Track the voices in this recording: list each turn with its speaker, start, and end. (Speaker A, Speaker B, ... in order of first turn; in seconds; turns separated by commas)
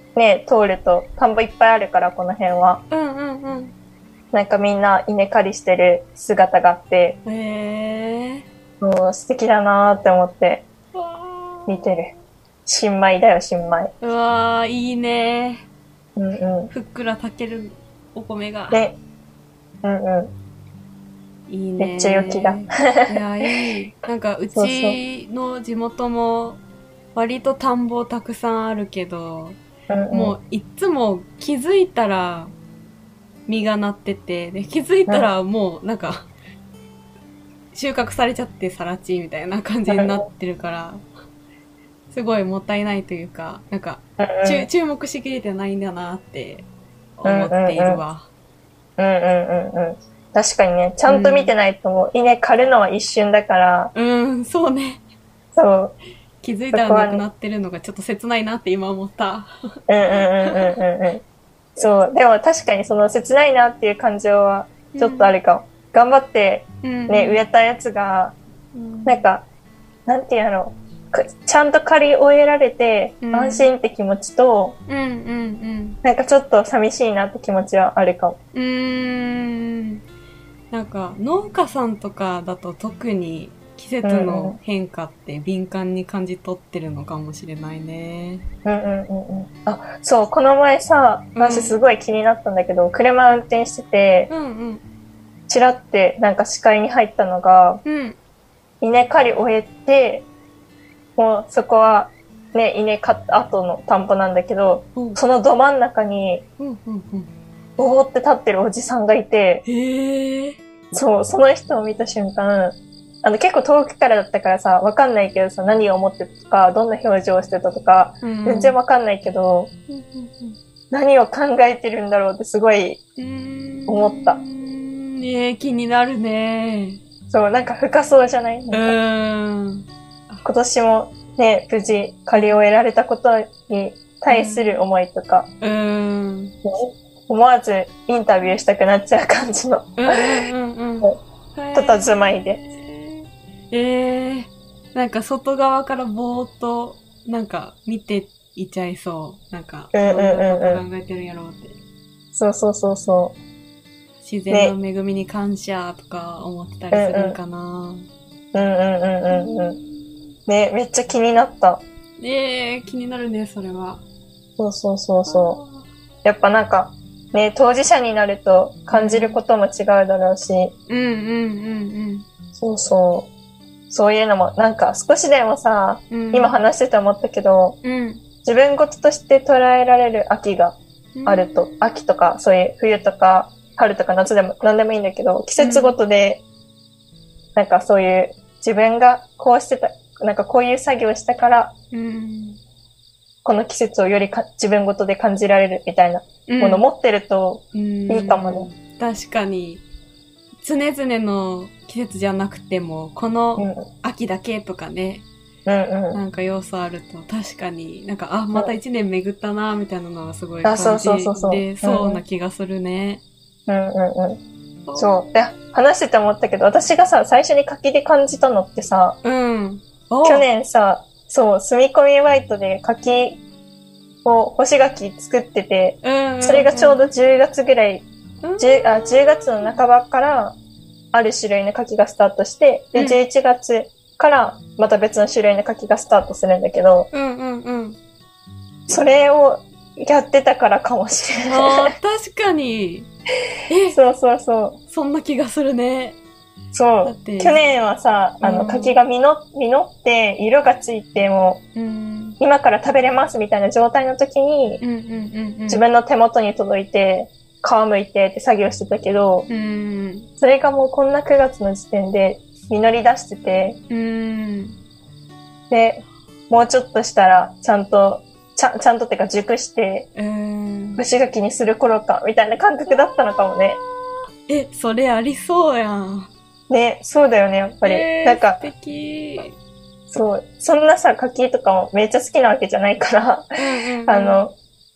Speaker A: 0.1-2.8, Speaker B: 2.9-3.7, Speaker A: 4.3-7.2, Speaker B: 7.2-8.4, Speaker A: 8.8-10.6, Speaker B: 10.9-12.0, Speaker A: 11.7-12.1, Speaker A: 12.7-13.9, Speaker B: 14.0-15.6, Speaker A: 16.1-16.7, Speaker B: 16.7-18.8, Speaker A: 19.8-20.3, Speaker B: 21.5-26.6, Speaker A: 21.8-23.1, Speaker A: 24.5-25.0, Speaker B: 27.1-29.6, Speaker A: 29.9-30.4, Speaker B: 30.1-32.5, Speaker B: 33.5-36.3, Speaker B: 37.7-41.0, Speaker A: 39.9-40.2, Speaker B: 42.1-46.6, Speaker A: 44.2-44.7, Speaker B: 47.2-48.3, Speaker A: 47.2-48.0, Speaker A: 49.0-53.9, Speaker B: 51.1-51.5, Speaker B: 53.9-55.0, Speaker A: 55.5-56.0, Speaker B: 56.4-59.6, Speaker A: 56.7-57.2, Speaker A: 59.9-61.2, Speaker B: 60.2-60.6, Speaker A: 61.8-68.3, Speaker B: 64.9-65.3, Speaker B: 66.8-67.4, Speaker B: 68.7-69.2, Speaker A: 69.0-69.4, Speaker A: 70.0-74.8, Speaker B: 73.2-73.7, Speaker B: 74.9-76.0, Speaker A: 76.0-78.4, Speaker B: 78.5-80.0, Speaker B: 80.7-88.5, Speaker A: 84.0-84.6, Speaker A: 88.6-94.3, Speaker B: 91.3-91.8, Speaker B: 94.3-94.8, Speaker A: 95.5-97.8, Speaker B: 97.8-98.2, Speaker A: 98.8-100.2, Speaker A: 101.2-106.4, Speaker B: 106.6-107.3, Speaker A: 107.8-109.6, Speaker B: 109.6-110.6, Speaker A: 110.9-119.7, Speaker B: 118.2-118.8, Speaker B: 119.9-120.6, Speaker A: 120.9-123.0, Speaker B: 123.2-127.0, Speaker A: 123.9-124.4, Speaker A: 127.3-128.9, Speaker B: 128.7-130.4, Speaker A: 130.4-135.5, Speaker B: 132.3-132.6, Speaker B: 134.3-134.8, Speaker B: 135.6-136.6, Speaker A: 136.6-140.3, Speaker B: 140.0-151.8, Speaker A: 141.7-142.6, Speaker A: 149.9-150.8, Speaker A: 152.3-153.3, Speaker B: 154.2-158.1, Speaker A: 156.9-157.4, Speaker A: 158.5-159.8, Speaker B: 159.3-160.2, Speaker A: 160.5-161.8, Speaker B: 162.2-164.0, Speaker A: 164.6-165.6, Speaker B: 165.2-165.8, Speaker A: 166.2-170.7, Speaker B: 168.9-169.4, Speaker B: 170.9-172.2, Speaker A: 172.5-173.3, Speaker A: 173.9-177.8, Speaker B: 176.1-176.6, Speaker B: 177.8-178.2, Speaker A: 178.4-186.4, Speaker B: 181.2-181.8, Speaker B: 185.6-185.9, Speaker A: 187.6-191.7, Speaker B: 191.9-192.6, Speaker A: 193.4-198.7, Speaker B: 196.5-196.8, Speaker B: 197.7-199.8, Speaker B: 200.6-205.2, Speaker A: 203.6-203.8, Speaker A: 205.7-206.2, Speaker B: 206.1-213.2, Speaker A: 210.6-212.2, Speaker A: 213.7-214.4, Speaker B: 214.9-215.4, Speaker A: 214.9-219.2, Speaker B: 219.2-220.4, Speaker A: 220.2-223.4, Speaker A: 224.2-228.1, Speaker B: 226.0-227.0, Speaker B: 228.4-229.7, Speaker A: 228.6-230.6, Speaker A: 231.1-237.1, Speaker B: 237.1-238.0, Speaker A: 238.9-241.9, Speaker B: 241.4-243.1, Speaker B: 243.7-244.0, Speaker A: 243.9-244.8, Speaker B: 244.9-246.2, Speaker A: 246.7-251.6, Speaker B: 247.0-247.6, Speaker B: 248.4-249.0, Speaker B: 251.7-252.4, Speaker A: 252.4-254.8, Speaker B: 254.8-255.8, Speaker A: 255.7-259.5, Speaker B: 259.5-260.3, Speaker A: 260.4-263.8, Speaker B: 263.9-264.8, Speaker A: 265.7-270.1, Speaker B: 270.1-271.0, Speaker A: 271.0-273.8, Speaker B: 273.5-273.8, Speaker B: 274.4-276.3, Speaker A: 276.7-278.6, Speaker B: 277.8-279.6, Speaker A: 280.1-284.5, Speaker B: 283.6-284.4